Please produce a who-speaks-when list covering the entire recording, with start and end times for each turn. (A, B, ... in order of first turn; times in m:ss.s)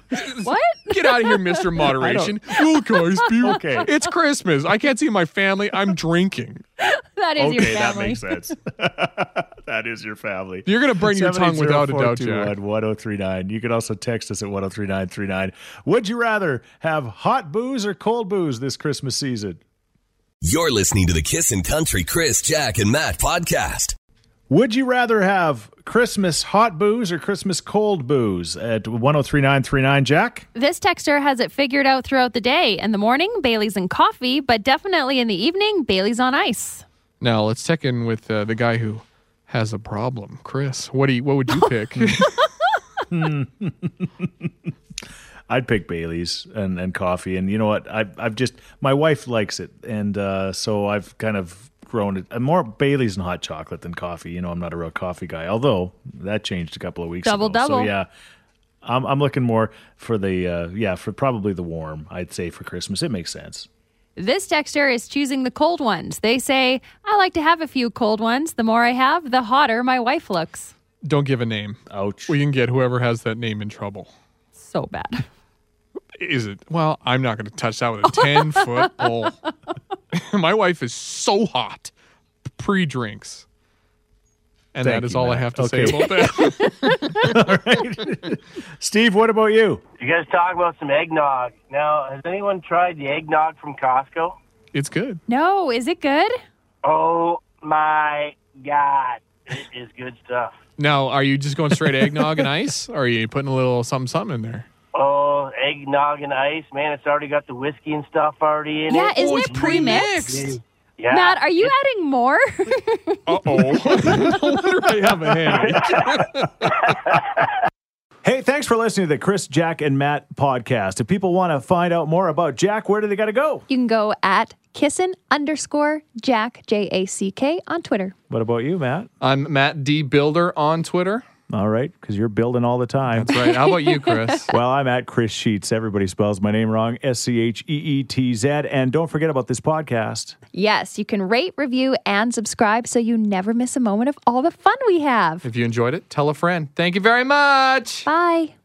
0:00.1-0:06.6 A
0:00.4-0:02.2 B
0:03.4-0:03.9 C
0:03.6-0:03.8 B
0:06.8-0:08.3 B
0:07.4-0:19.6 C
0:10.7-0:12.5 A
0:20.4-0:24.0 D
0:24.5-0:30.5 C
0:30.6-0:36.8 B
0:37.2-0:42.5 A
0:43.1-0:44.5 C
0:45.5-0:58.1 C
0:57.2-0:58.0 B
0:58.8-1:03.7 C
1:04.2-1:10.7 B
1:11.0-1:14.1 A
1:11.9-1:12.4 C
1:14.6-1:15.2 B
1:16.2-1:19.4 A
1:18.2-1:18.8 B
1:20.1-1:21.9 A
1:22.5-1:23.4 A
1:24.7-1:27.0 A
1:24.8-1:26.1 C
1:26.6-1:27.1 B
1:27.2-1:29.8 C
1:30.0-1:34.4 E
1:34.7-1:35.2 A
1:35.3-1:36.4 B
1:36.8-1:40.5 E
1:40.8-1:44.7 A
1:44.9-1:51.3 E
1:48.9-1:50.6 B
1:49.1-1:50.4 A
1:51.1-1:54.4 B
1:53.3-1:56.8 A
1:58.2-2:03.6 C
2:03.7-2:08.2 B
2:08.3-2:09.1 C
2:09.2-2:11.2 A
2:11.5-2:13.4 C
2:13.1-2:14.5 A
2:13.4-2:14.4 B
2:14.5-2:20.4 C
2:20.5-2:25.5 B
2:25.4-2:28.1 A
2:28.1-2:28.5 B